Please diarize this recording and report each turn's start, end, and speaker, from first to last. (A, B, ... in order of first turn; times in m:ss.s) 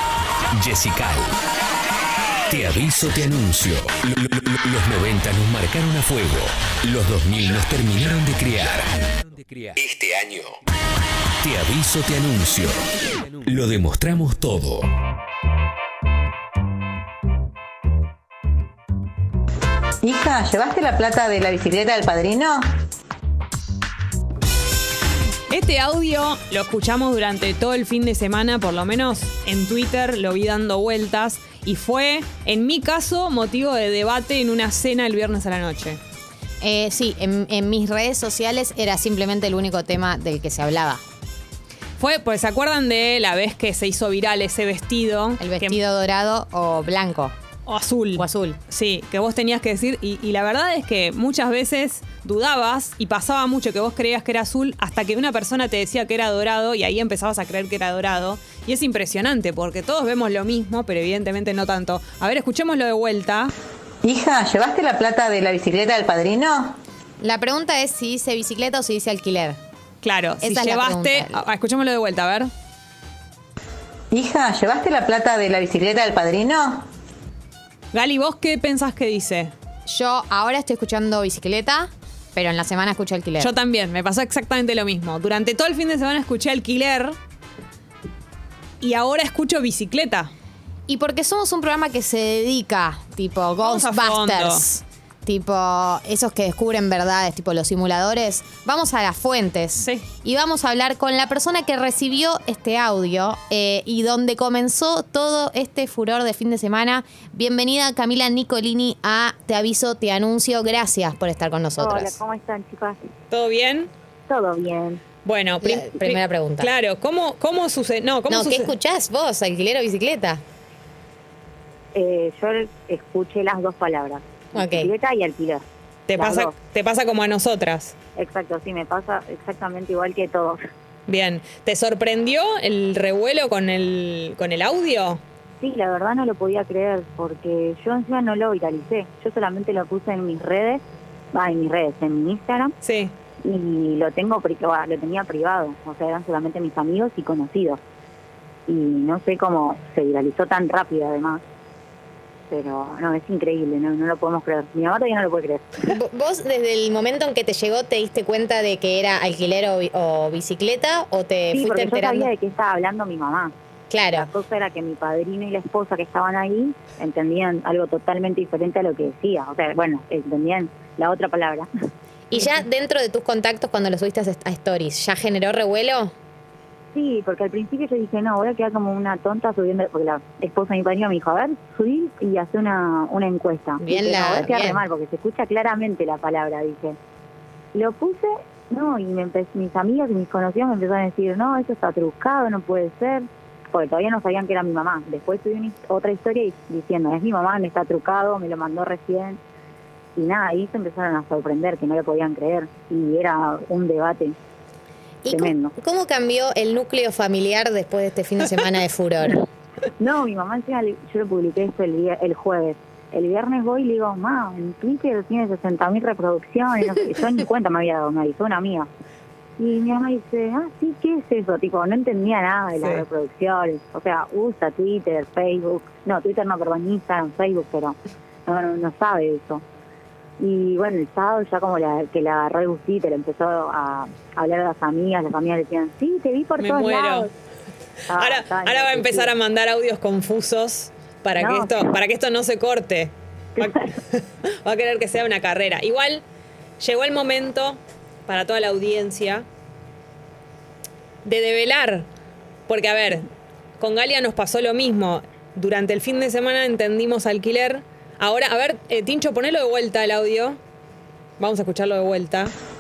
0:00.6-0:01.3 A
0:02.5-0:10.4 A
0:11.4-0:14.9 A
0:20.0-0:22.7 B
0:25.5-0:36.0 C
0:36.6-0:41.0 D
0:42.0-0:45.8 C
0:45.4-0:47.3 D
0:47.7-1:03.5 C
0:48.2-0:48.6 D
1:04.0-1:06.8 B
1:07.2-1:09.6 D
1:10.0-1:12.5 C
1:10.4-1:11.4 D
1:14.1-1:16.9 B
1:17.9-1:19.5 C
1:19.9-1:23.5 D
1:23.4-1:27.2 C
1:28.8-1:30.3 C
1:30.9-1:52.2 D
1:33.6-1:34.6 C
1:39.8-1:40.1 C
1:51.8-1:53.0 E
1:53.3-1:53.9 C
1:54.3-1:55.0 E
1:55.2-1:58.7 C
1:55.6-1:56.7 D
1:58.3-2:00.4 D
2:02.0-2:05.6 E
2:04.5-2:04.9 D
2:06.1-2:07.9 C
2:06.2-2:06.6 E
2:08.2-2:10.6 E
2:11.1-2:15.2 C
2:15.6-2:20.8 E
2:21.3-2:22.7 E
2:22.8-2:23.1 C
2:23.4-2:27.8 E
2:28.7-2:31.4 E
2:32.5-2:35.8 E
2:35.9-2:42.3 D
2:41.5-2:43.5 E
2:43.9-2:44.3 D
2:44.1-2:51.7 E
2:52.3-2:56.1 D
2:56.9-3:07.0 E
3:03.8-3:04.8 D
3:07.7-3:19.4 E
3:20.2-3:24.4 E
3:25.2-3:29.4 D
3:25.3-3:25.8 E
3:30.0-3:38.9 E
3:39.6-3:49.6 E
3:42.8-3:43.0 C
3:50.4-3:57.3 E
3:56.6-3:57.3 C
3:58.1-3:59.3 E
3:58.1-4:06.2 C
4:01.4-4:02.0 E
4:06.8-4:09.4 C
4:11.2-4:12.1 C
4:12.7-4:13.3 C
4:13.8-4:20.6 C
4:21.4-4:22.5 C